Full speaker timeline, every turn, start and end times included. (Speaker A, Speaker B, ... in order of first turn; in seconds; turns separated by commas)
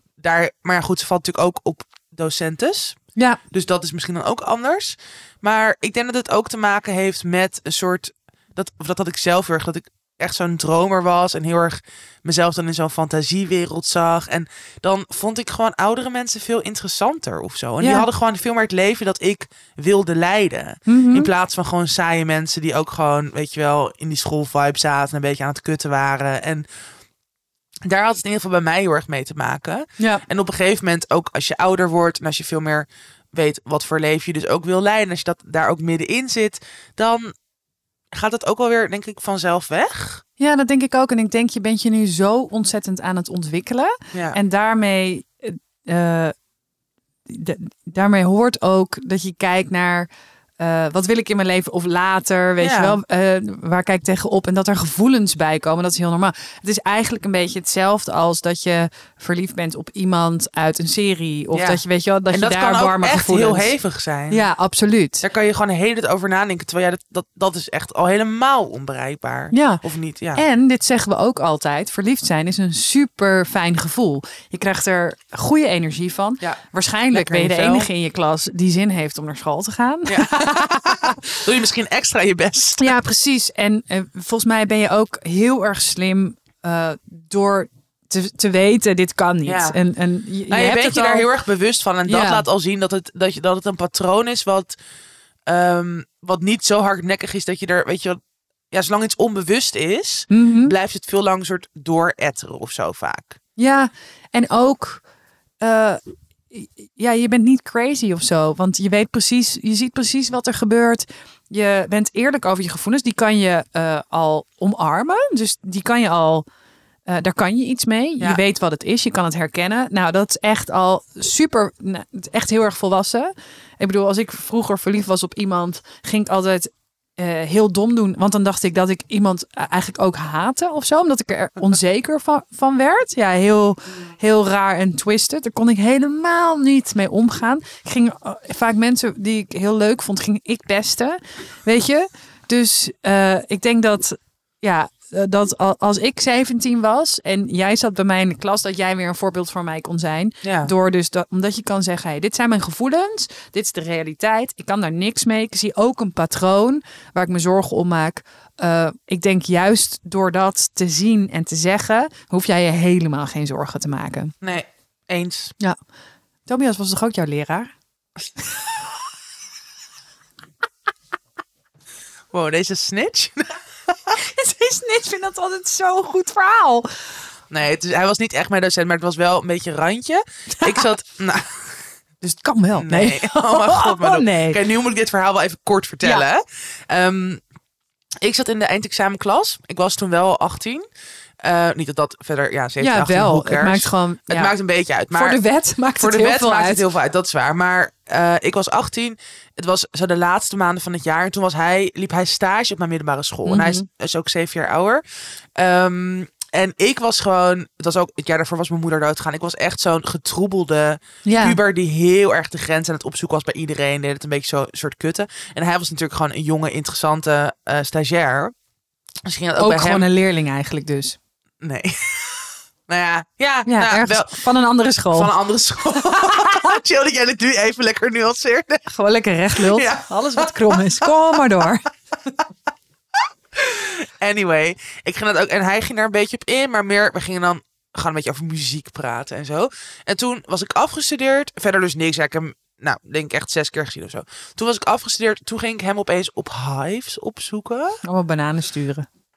Speaker A: 0.2-3.0, Speaker A: 3.5-26.7, Speaker B: 17.8-18.1, Speaker B: 20.9-21.3, Speaker A: 27.9-37.3, Speaker B: 30.0-30.2, Speaker A: 38.1-40.2, Speaker B: 40.4-46.3, Speaker A: 44.1-44.4, Speaker B: 47.3-63.7, Speaker A: 52.6-53.0, Speaker A: 61.5-64.5, Speaker B: 64.3-65.2, Speaker A: 65.2-70.4, Speaker B: 69.5-69.8, Speaker B: 70.3-81.3, Speaker A: 76.4-77.9, Speaker A: 80.1-82.9, Speaker B: 82.8-91.3, Speaker A: 89.5-89.8, Speaker A: 90.5-94.8, Speaker B: 92.1-92.5, Speaker A: 95.5-98.2, Speaker A: 98.7-103.4, Speaker B: 100.3-100.7, Speaker B: 103.6-105.0, Speaker B: 105.6-106.0, Speaker B: 106.5-116.5, Speaker B: 117.1-164.3, Speaker A: 150.4-150.7, Speaker A: 164.4-165.6, Speaker B: 166.5-167.7, Speaker A: 172.3-174.2, Speaker B: 174.2-176.9, Speaker A: 177.5-181.8, Speaker B: 182.2-184.6, Speaker A: 182.8-187.4, Speaker A: 188.2-190.8, Speaker A: 191.4-195.4, Speaker B: 192.8-194.5, Speaker B: 195.1-196.8, Speaker A: 196.0-205.0, Speaker B: 203.4-203.8, Speaker A: 205.6-218.6, Speaker B: 211.2-211.6, Speaker A: 219.3-220.1, Speaker B: 219.6-221.2, Speaker A: 221.6-224.5, Speaker B: 223.7-225.3, Speaker A: 225.1-228.9, Speaker B: 226.0-226.5, Speaker B: 228.9-231.8, Speaker A: 229.5-231.1, Speaker A: 233.6-248.0, Speaker B: 248.0-249.1